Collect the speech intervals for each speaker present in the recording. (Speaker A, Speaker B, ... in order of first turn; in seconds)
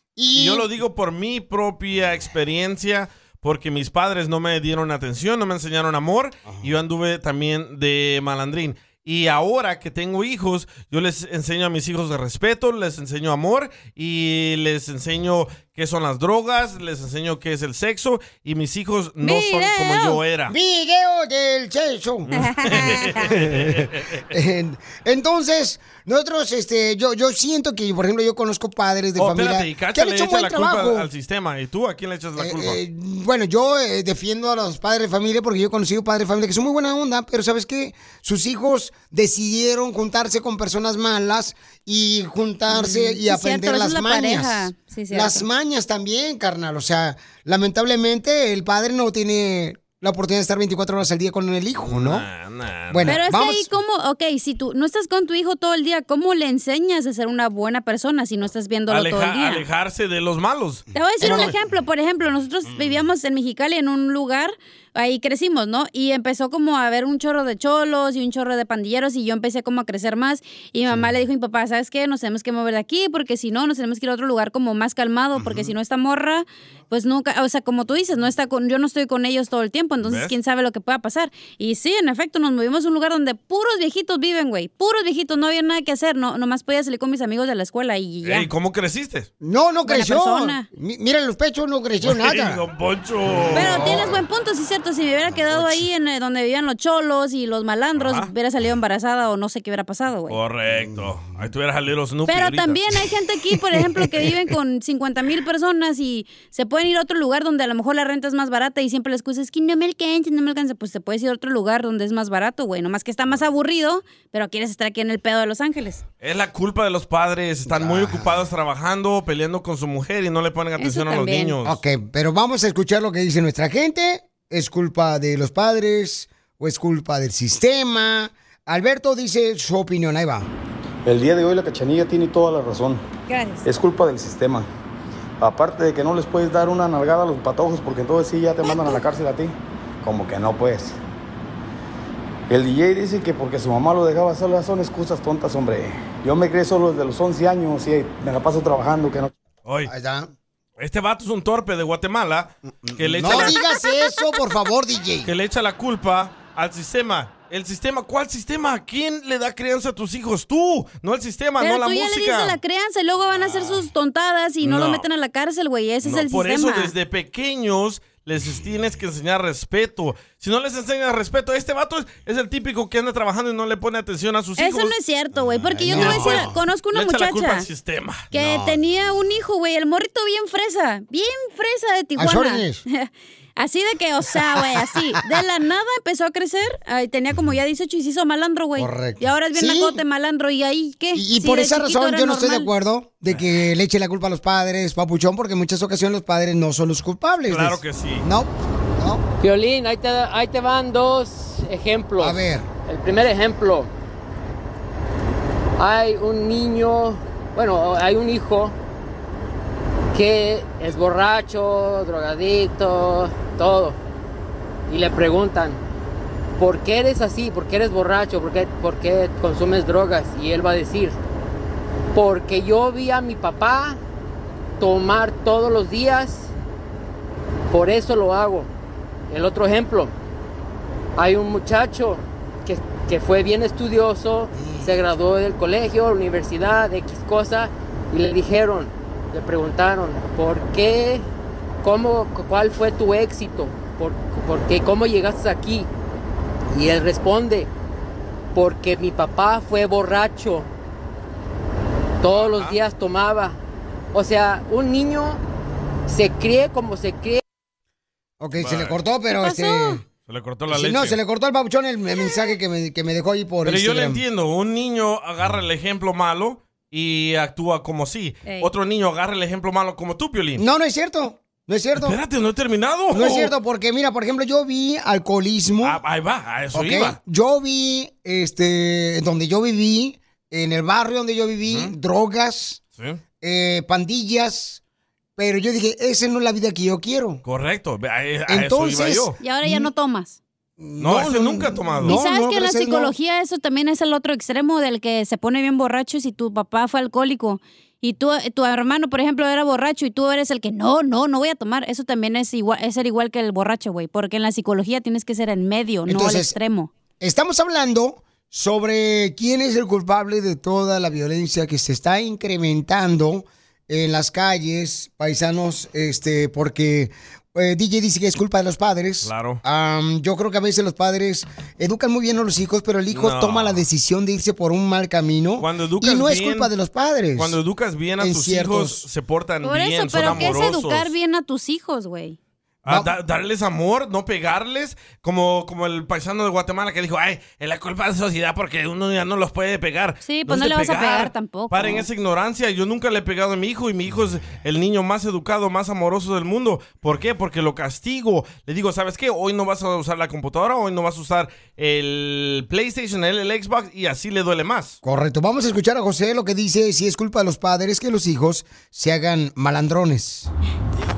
Speaker A: 0.2-0.7, 20.5-22.3, 23.1-31.1, 32.4-52.2, 52.9-53.7, 61.2-61.5, 75.3-75.7, 89.4-92.6, 93.3-94.2, 117.7-118.3, 121.6-130.5, 149.9-150.3, 152.7-155.3, 175.5-176.5, 182.2-182.8, 184.6-185.0, 188.8-190.0, 191.1-199.2, 202.2-202.7, 234.6-234.9, 258.4-260.0, 260.7-264.2, 270.6-272.2, 273.1-276.0, 276.7-282.8, 283.4-284.8, 285.4-287.4, 288.5-289.9, 290.8-293.1, 306.1-306.6, 307.2-327.6, 328.2-329.0, 332.9-333.1, 355.0-360.5
Speaker B: 0.3-20.6, 22.3-24.0, 29.2-32.8, 51.8-53.2, 58.9-61.5, 80.0-80.3, 88.2-89.3, 92.0-94.0, 98.0-98.3, 100.3-102.8, 116.2-121.8, 149.7-149.9, 150.8-153.6, 155.2-162.6, 163.3-163.9, 164.6-165.0, 166.0-174.9, 175.9-178.6, 197.5-198.2, 252.3-252.8, 258.6-258.9, 260.2-261.2, 263.6-270.6, 271.9-273.5, 275.8-277.2, 281.7-281.9, 287.4-289.4, 291.0-292.2, 319.2-319.6, 323.1-323.8, 325.6-326.7, 327.3-331.1, 332.8-355.0
Speaker C: 19.2-20.2, 22.3-23.2, 42.7-45.4, 53.0-59.6, 60.9-88.5, 89.8-90.7, 93.5-100.4, 102.3-116.0, 120.8-121.5, 133.3-133.7, 138.6-139.0, 153.3-154.2, 161.6-166.9, 174.6-177.7, 178.3-192.7, 259.4-260.0, 289.4-290.4, 292.1-306.9, 329.6-332.4, 340.2-342.1
Speaker D: 131.0-133.0, 133.6-134.7, 135.4-141.0, 142.5-149.3
Speaker E: 199.4-203.9, 205.8-208.7, 210.1-214.0, 214.9-215.8, 216.6-221.2, 222.1-224.0, 224.8-226.5, 227.7-228.7, 229.3-230.1, 231.2-241.2, 241.8-245.9, 246.7-247.7, 248.5-250.7, 252.2-253.6, 254.1-255.4, 256.1-257.4